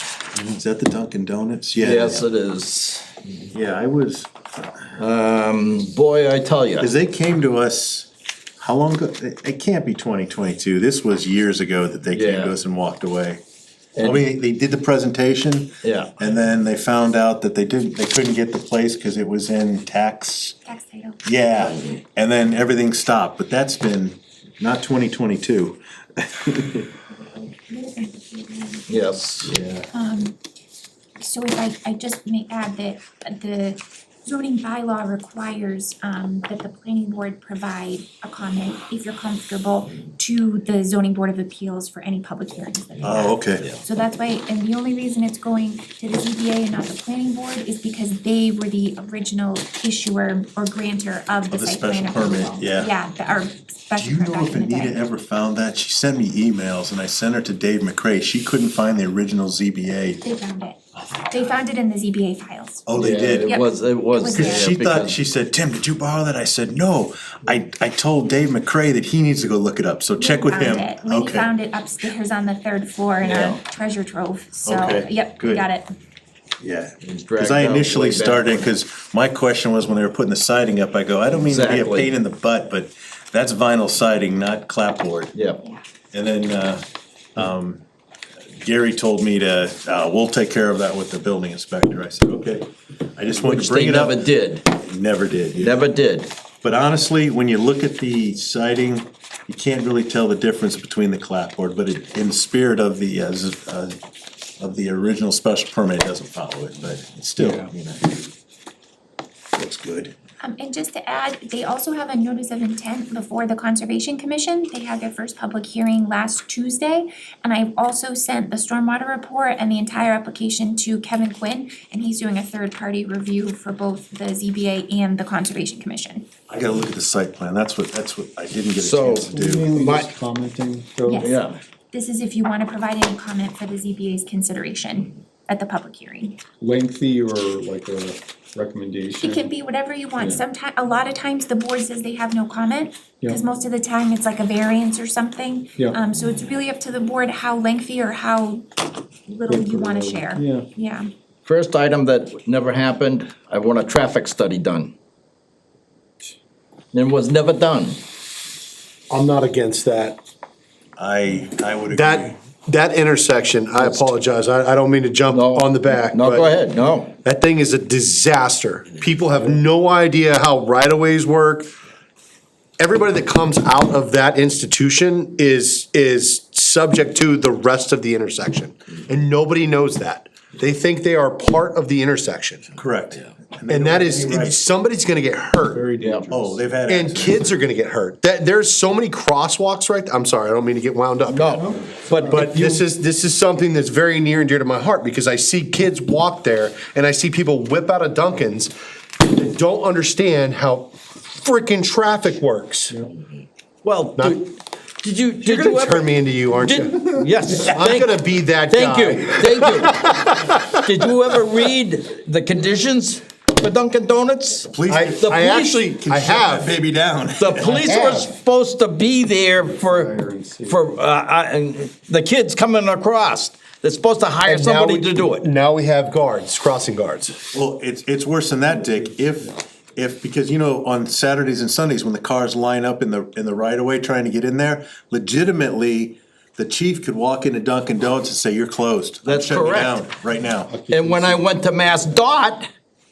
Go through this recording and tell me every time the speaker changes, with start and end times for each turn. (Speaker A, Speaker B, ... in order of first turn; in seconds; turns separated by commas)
Speaker A: 0.3-2.3, Speaker B: 1.8-3.2, Speaker A: 3.5-4.3, Speaker B: 5.0-6.9, Speaker A: 6.8-13.4, Speaker B: 12.1-12.6, Speaker B: 13.9-14.3, Speaker A: 14.0-20.6, Speaker B: 15.8-16.1, Speaker C: 20.6-21.3, Speaker A: 21.2-26.9, Speaker C: 27.2-28.9, Speaker B: 28.9-29.8, Speaker A: 29.5-29.8, Speaker C: 29.9-30.4, Speaker C: 31.2-55.0, Speaker A: 43.0-43.6, Speaker A: 51.5-52.9, Speaker A: 54.0-60.2, Speaker C: 60.2-62.9, Speaker A: 62.9-63.5, Speaker B: 62.9-65.2, Speaker C: 63.4-64.5, Speaker A: 64.3-71.5, Speaker C: 70.2-75.9, Speaker B: 73.2-73.6, Speaker A: 74.6-75.7, Speaker A: 76.6-85.3, Speaker B: 77.0-78.7, Speaker B: 81.4-82.2, Speaker B: 85.3-85.6, Speaker A: 86.1-86.8, Speaker A: 87.3-87.8, Speaker A: 88.6-95.8, Speaker B: 93.4-94.7, Speaker B: 95.6-96.3, Speaker A: 96.6-104.0, Speaker A: 104.6-108.3, Speaker A: 109.5-110.1, Speaker C: 110.5-126.2, Speaker A: 126.5-129.7, Speaker B: 128.8-130.1, Speaker D: 129.3-131.3, Speaker C: 131.1-131.4, Speaker B: 131.2-131.6, Speaker C: 131.9-136.5, Speaker D: 136.5-139.5, Speaker C: 139.2-148.6, Speaker C: 149.3-151.1, Speaker D: 149.5-150.7, Speaker B: 151.4-154.9, Speaker B: 156.9-158.0, Speaker E: 159.1-160.2, Speaker A: 161.0-162.3, Speaker E: 161.9-166.5, Speaker B: 163.8-164.1, Speaker B: 165.3-167.1, Speaker E: 167.2-171.7, Speaker E: 172.8-182.7, Speaker A: 182.8-184.6, Speaker E: 183.7-185.9, Speaker D: 185.7-186.6, Speaker B: 186.0-186.3, Speaker A: 186.3-187.5, Speaker E: 186.9-203.0, Speaker B: 191.3-192.8, Speaker B: 203.8-215.9, Speaker E: 205.4-211.3, Speaker A: 214.7-217.9, Speaker E: 214.9-216.7, Speaker B: 217.4-225.4, Speaker E: 217.7-218.3, Speaker D: 219.6-220.9, Speaker E: 224.4-227.4, Speaker A: 227.5-240.7, Speaker D: 228.8-229.1, Speaker B: 239.2-240.0, Speaker D: 240.7-241.5, Speaker B: 240.9-242.7